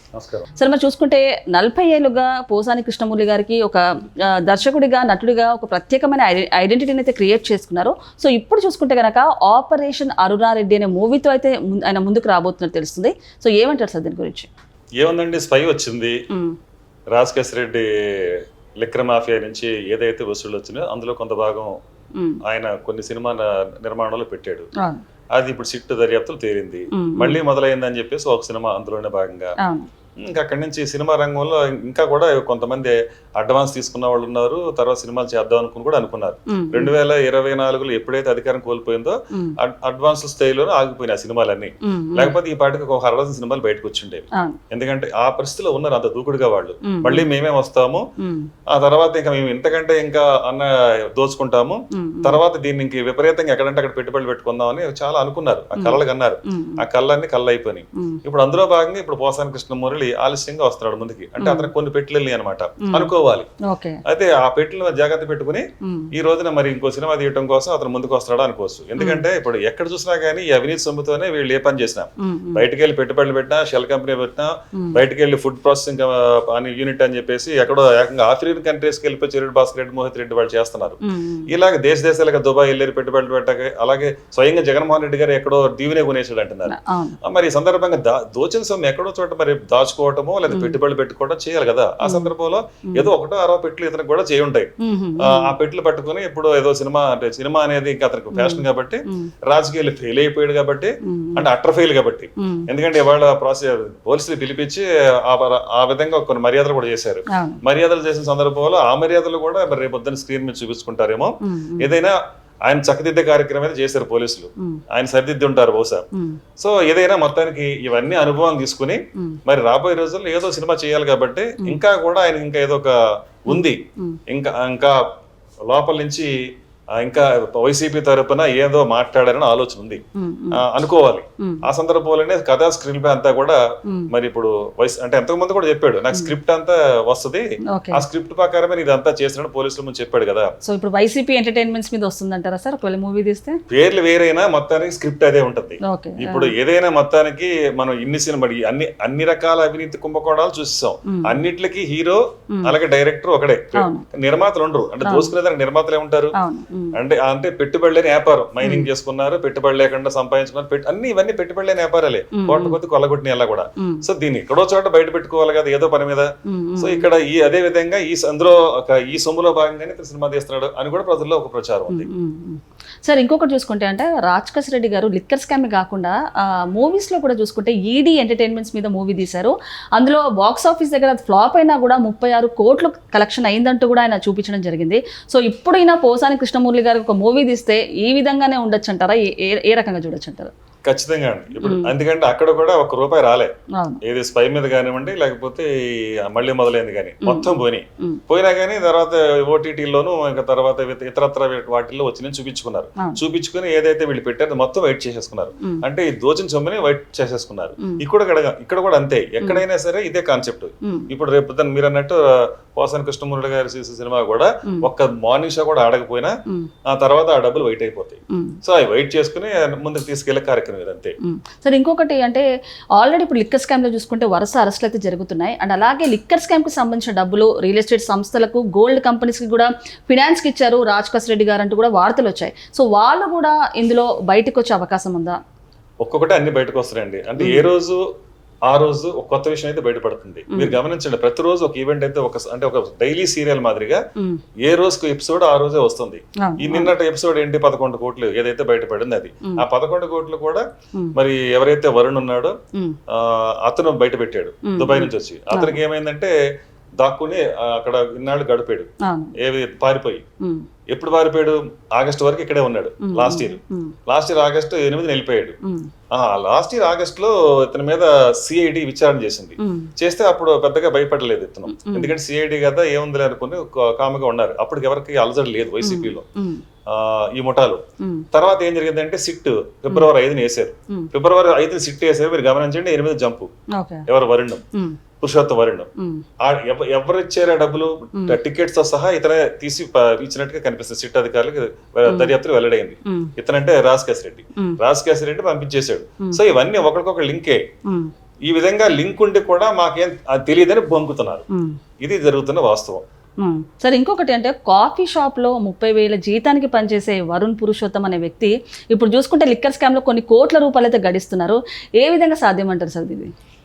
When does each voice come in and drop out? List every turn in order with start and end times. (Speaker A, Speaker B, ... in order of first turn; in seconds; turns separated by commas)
Speaker A: 0.1-0.5, Speaker B: 0.6-14.5, Speaker A: 15.0-16.2, Speaker B: 16.3-16.6, Speaker A: 17.1-21.8, Speaker B: 22.2-22.4, Speaker A: 22.4-24.7, Speaker A: 25.3-29.5, Speaker B: 26.9-27.4, Speaker B: 29.6-29.9, Speaker A: 30.2-48.0, Speaker B: 36.5-36.9, Speaker B: 39.3-39.6, Speaker B: 41.8-42.4, Speaker B: 46.9-47.3, Speaker B: 48.2-48.5, Speaker A: 48.7-63.5, Speaker B: 51.9-52.4, Speaker B: 55.8-56.8, Speaker B: 61.4-61.7, Speaker B: 62.8-63.1, Speaker B: 63.7-64.0, Speaker A: 64.0-116.1, Speaker B: 65.8-66.1, Speaker B: 69.0-69.2, Speaker B: 72.2-72.7, Speaker B: 74.7-75.0, Speaker B: 81.0-81.5, Speaker B: 86.7-87.2, Speaker B: 90.5-90.8, Speaker B: 92.0-92.3, Speaker B: 94.8-95.5, Speaker B: 98.3-99.3, Speaker B: 101.0-101.4, Speaker B: 102.4-102.7, Speaker B: 107.3-107.6, Speaker B: 111.4-111.9, Speaker B: 116.1-116.4, Speaker A: 116.6-125.0, Speaker B: 123.5-124.2, Speaker A: 125.7-126.3, Speaker A: 127.0-130.0, Speaker B: 130.2-130.6, Speaker A: 130.5-140.5, Speaker B: 131.4-131.6, Speaker B: 137.7-138.0, Speaker B: 140.6-143.6, Speaker A: 143.7-156.3, Speaker B: 145.8-146.5, Speaker B: 151.1-151.3, Speaker B: 153.8-154.0, Speaker B: 155.0-155.3, Speaker B: 156.4-156.9, Speaker A: 156.9-172.1, Speaker B: 158.6-158.9, Speaker B: 162.3-162.8, Speaker B: 163.8-164.0, Speaker B: 166.4-167.1, Speaker B: 171.9-190.5, Speaker A: 190.9-193.5, Speaker B: 191.6-191.9, Speaker A: 194.0-216.3, Speaker B: 197.2-198.2, Speaker B: 210.8-211.1, Speaker A: 216.8-221.2, Speaker B: 218.3-218.6, Speaker B: 221.2-235.4, Speaker A: 236.0-238.0, Speaker B: 237.4-237.7, Speaker A: 238.7-244.0, Speaker B: 240.5-240.8, Speaker A: 244.6-252.6, Speaker B: 246.4-246.9, Speaker A: 253.1-256.3, Speaker B: 254.7-255.8, Speaker A: 257.0-260.2, Speaker B: 259.0-259.4, Speaker B: 260.4-260.7, Speaker A: 260.9-265.6, Speaker B: 263.0-263.9, Speaker A: 266.1-276.2, Speaker B: 269.6-269.9, Speaker B: 271.7-272.1, Speaker B: 275.8-276.6, Speaker A: 276.9-277.8, Speaker B: 278.0-278.2, Speaker A: 278.3-283.5, Speaker B: 283.8-284.1, Speaker A: 284.1-284.6, Speaker A: 285.2-285.9, Speaker B: 286.0-286.2, Speaker A: 286.4-297.6, Speaker B: 292.1-292.3, Speaker B: 293.1-293.3, Speaker A: 298.5-301.4, Speaker B: 301.5-301.8, Speaker A: 302.0-303.0, Speaker B: 303.4-313.3